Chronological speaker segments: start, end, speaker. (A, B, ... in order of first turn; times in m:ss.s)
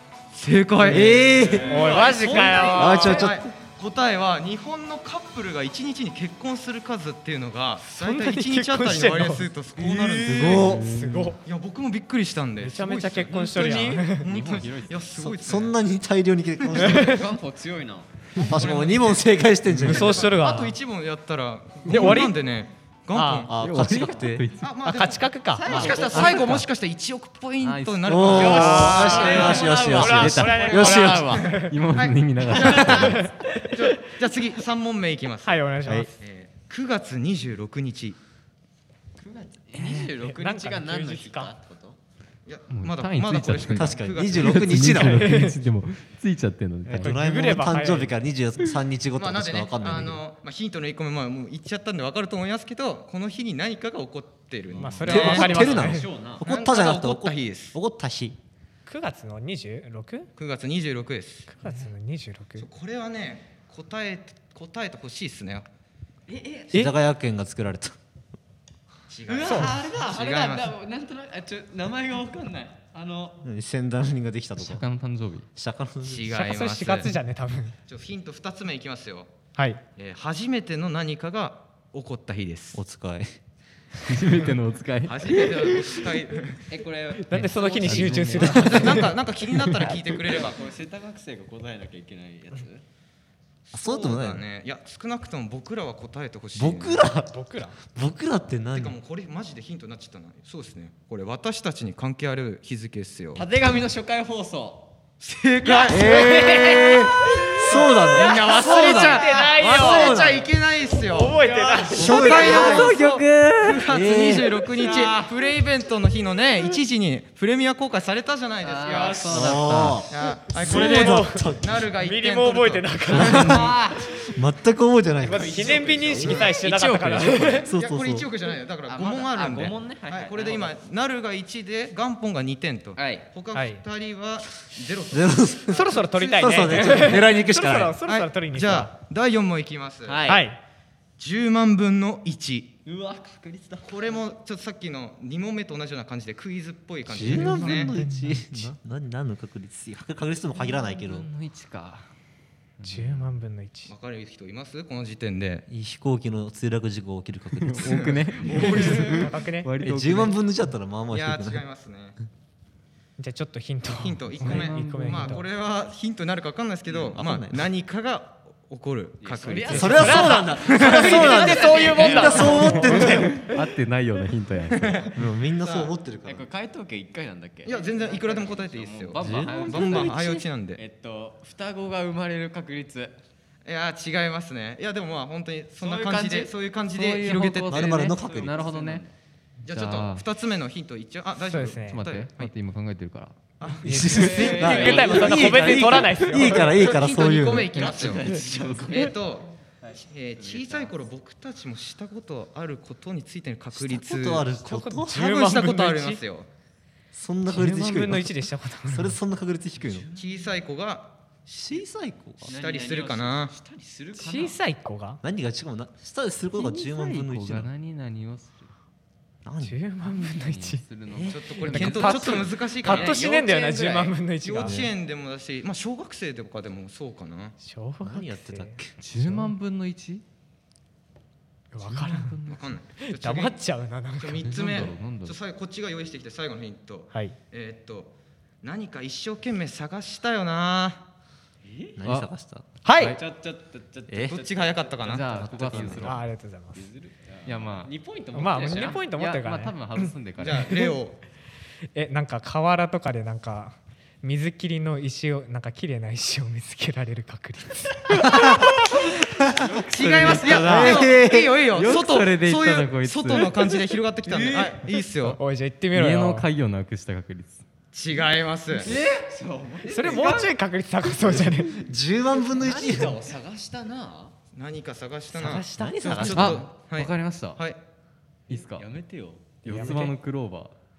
0:00.3-0:10.7 A
0:00.8-0:03.5 B
0:00.8-0:03.2 C
0:01.6-0:03.3 D
0:07.8-0:09.5 D
0:09.8-0:10.9 B
0:10.5-0:11.4 D
0:10.6-0:11.3 E
0:11.4-0:15.8 A
0:12.6-0:14.3 D
0:13.6-0:14.0 C
0:14.2-0:15.1 E
0:15.2-0:17.2 B
0:16.7-0:17.0 A
0:16.8-0:17.2 D
0:16.9-0:18.1 C
0:18.4-0:20.3 B
0:18.4-0:23.5 A
0:19.8-0:20.7 D
0:21.8-0:22.4 D
0:21.9-0:22.2 B
0:23.1-0:23.5 D
0:23.5-0:24.4 B
0:23.6-0:24.7 E
0:24.6-0:31.2 A
0:24.8-0:26.0 D
0:25.5-0:26.6 C
0:25.9-0:26.6 E
0:27.6-0:28.3 E
0:28.0-0:31.5 B
0:28.3-0:31.6 C
0:28.4-0:31.8 D
0:30.1-0:30.6 E
0:31.6-0:33.2 E
0:31.9-0:33.1 A
0:32.5-0:33.2 C
0:32.9-0:33.7 D
0:33.7-0:35.6 A
0:35.4-0:36.1 D
0:36.2-0:38.2 A
0:39.2-0:42.0 C
0:40.0-0:41.5 D
0:42.4-0:45.0 A
0:42.7-0:47.1 E
0:43.7-0:45.3 B
0:45.0-0:45.6 D
0:46.8-0:50.2 B
0:46.9-0:48.1 D
0:49.2-0:55.7 A
0:54.7-0:56.4 C
0:54.8-0:56.1 D
0:55.0-0:58.4 B
0:56.4-0:57.8 A
0:58.8-1:00.3 D
1:00.4-1:01.5 A
1:01.5-1:02.6 D
1:02.6-1:05.6 A
1:06.3-1:06.8 C
1:06.7-1:07.9 B
1:09.1-1:10.7 A
1:09.3-1:13.4 C
1:09.4-1:09.8 D
1:13.4-1:14.8 B
1:14.6-1:15.4 E
1:15.6-1:16.4 B
1:16.0-1:17.1 A
1:16.3-1:17.8 D
1:17.9-1:19.3 A
1:19.6-1:19.8 D
1:20.0-1:22.8 A
1:22.7-1:23.4 B
1:24.0-1:25.9 E
1:25.0-1:26.6 A
1:25.3-1:25.7 C
1:26.7-1:29.1 C
1:27.2-1:29.2 D
1:27.3-1:28.6 E
1:28.4-1:28.7 B
1:28.6-1:30.6 A
1:29.5-1:29.9 E
1:29.8-1:32.8 C
1:33.7-1:37.0 A
1:33.7-1:34.4 B
1:36.5-1:37.3 B
1:37.2-1:37.8 D
1:37.9-1:39.0 B
1:38.7-1:43.4 A
1:43.3-1:44.9 C
1:45.2-1:51.4 A
1:45.6-1:48.8 C
1:45.9-1:50.5 B
1:48.6-1:50.2 D
1:49.3-1:49.7 C
1:51.1-1:52.3 D
1:51.3-1:53.1 C
1:51.9-1:53.2 B
1:51.9-1:59.5 A
1:52.4-1:53.8 E
1:53.8-1:54.6 B
1:54.8-1:55.2 C
1:58.6-2:00.1 E
1:58.9-1:59.8 C
1:59.3-2:01.8 B
2:00.1-2:03.8 A
2:00.6-2:04.3 D
2:03.1-2:03.7 B
2:03.3-2:04.1 C
2:04.3-2:06.5 B
2:05.2-2:07.7 D
2:05.2-2:07.7 C
2:06.2-2:06.6 A
2:07.6-2:08.3 B
2:07.7-2:17.2 A
2:08.8-2:10.8 C
2:12.9-2:13.3 C
2:13.5-2:13.8 D
2:15.1-2:18.0 B
2:15.7-2:18.9 D
2:18.0-2:20.4 A
2:20.0-2:20.4 C
2:20.2-2:20.6 D
2:21.2-2:22.7 A
2:22.8-2:24.3 C
2:23.8-2:27.9 A
2:27.1-2:31.3 B
2:27.2-2:28.7 D
2:30.6-2:32.0 E
2:32.8-2:33.3 E
2:32.8-2:33.9 D
2:33.9-2:35.6 A
2:35.7-2:38.0 B
2:37.5-2:40.4 E
2:37.8-2:39.2 A
2:38.6-2:39.7 D
2:39.8-2:41.6 B
2:41.1-2:42.2 A
2:43.2-2:45.4 D
2:44.0-2:52.5 A
2:44.4-2:45.4 E
2:47.1-2:47.7 B
2:49.2-2:53.3 C
2:49.7-2:53.3 B
2:49.7-2:53.4 D
2:52.5-2:55.1 E
2:54.7-2:55.1 A
2:55.1-2:56.5 B
2:55.6-3:03.2 C
2:57.6-3:00.8 A
2:59.2-3:00.3 B
3:03.6-3:08.0 A
3:05.8-3:06.6 C
3:06.9-3:09.0 E
3:07.7-3:08.5 B
3:08.0-3:09.1 C
3:09.6-3:12.5 A
3:09.7-3:10.2 E
3:11.5-3:12.0 D
3:11.9-3:13.4 E
3:13.6-3:18.3 A
3:13.8-3:16.7 D
3:13.8-3:18.0 B
3:14.1-3:15.8 C
3:17.7-3:19.2 C
3:18.9-3:24.5 A
3:19.8-3:21.1 C
3:23.7-3:25.2 B
3:24.6-3:26.2 D
3:25.1-3:26.5 A
3:27.1-3:30.0 B
3:27.5-3:29.2 D
3:29.8-3:30.6 C
3:30.2-3:31.2 A
3:31.5-3:32.5 B
3:32.4-3:34.6 C
3:32.4-3:33.5 A
3:34.2-3:35.2 D
3:35.2-3:37.7 B
3:36.5-3:38.7 E
3:39.4-3:39.8 B
3:39.6-3:40.8 D
3:40.0-3:42.5 E
3:41.3-3:43.2 A
3:41.5-3:44.8 D
3:42.8-3:44.2 C
3:44.4-3:47.5 A
3:47.6-3:48.8 D
3:48.0-3:49.5 B
3:49.0-3:50.2 E
3:51.7-3:52.4 D
3:51.8-3:52.7 E
3:52.5-3:53.6 A
3:53.0-3:54.5 D
3:54.2-4:01.0 A
3:54.4-3:55.4 E
3:57.1-3:57.4 D
4:01.6-4:02.0 C
4:02.0-4:02.6 B
4:02.8-4:03.2 D
4:03.2-4:05.7 C
4:04.1-4:04.4 B
4:04.3-4:06.1 A
4:05.0-4:06.2 E
4:05.7-4:06.1 B
4:06.0-4:06.9 D
4:06.6-4:09.0 C
4:07.4-4:07.9 E
4:08.3-4:10.1 D
4:08.6-4:10.8 E
4:10.4-4:11.2 A
4:11.9-4:18.9 D
4:18.1-4:18.8 B
4:19.6-4:20.5 C
4:19.9-4:25.4 A
4:20.0-4:21.1 E
4:20.5-4:21.6 B
4:21.6-4:23.7 E
4:24.2-4:24.8 C
4:25.2-4:26.5 D
4:25.9-4:27.6 E
4:27.9-4:28.9 A
4:28.8-4:30.5 C
4:29.8-4:31.8 D
4:31.3-4:33.2 B
4:32.4-4:34.3 C
4:34.5-4:37.8 A
4:35.4-4:36.6 B
4:35.4-4:36.0 D
4:36.3-4:37.6 E
4:38.5-4:38.9 E
4:38.5-4:39.6 C
4:39.6-4:40.7 E
4:39.6-4:40.1 D
4:39.7-4:40.0 B